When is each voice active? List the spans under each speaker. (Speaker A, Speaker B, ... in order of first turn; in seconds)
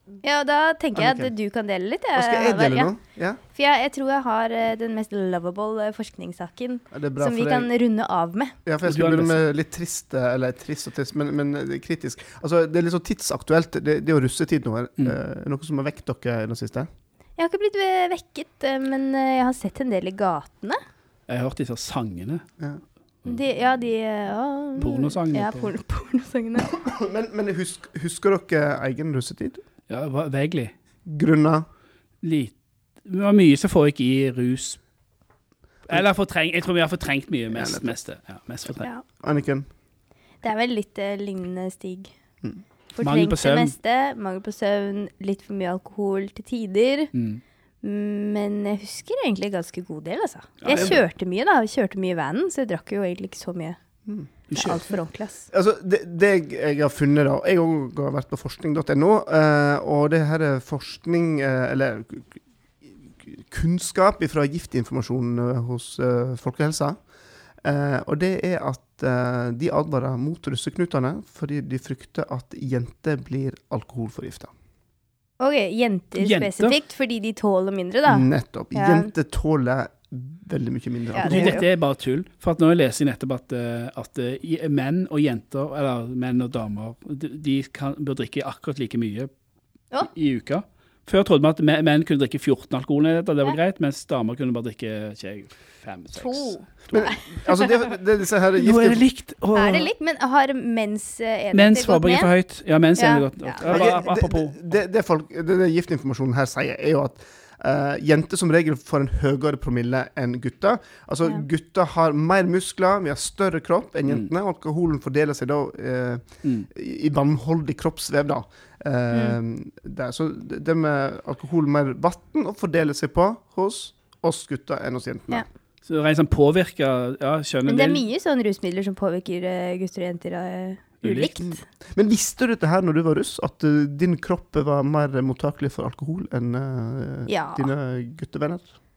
Speaker A: 0.2-2.9, 3.5-8.6, 17.4-20.8, 23.2-26.7, 40.4-42.1, 42.9-47.1, 47.8-53.8, 54.5-55.5, 75.4-79.1, 81.1-81.7, 96.1-97.8, 99.5-102.3, 103.0-104.0, 119.1-119.4, 127.7-131.6, 137.3-137.7
Speaker B: 0.9-1.3, 2.1-3.4, 6.9-7.7, 8.7-16.9, 26.6-29.6, 31.1-31.6, 37.5-38.0, 39.2-39.7, 50.7-51.0, 54.0-54.3, 55.5-67.0, 67.6-74.5, 78.1-81.6, 96.9-99.0, 103.6-125.4, 131.4-138.7
Speaker C: 8.8-9.4, 21.3-22.4, 24.8-25.7, 29.9-30.7, 32.2-32.5, 33.0-34.8, 35.9-38.9, 43.0-43.7, 47.1-47.4, 50.6-51.0, 54.5-54.8, 76.2-76.7, 81.2-89.3, 90.0-96.5, 98.6-99.9, 101.5-104.6, 125.8-128.0, 131.0-131.3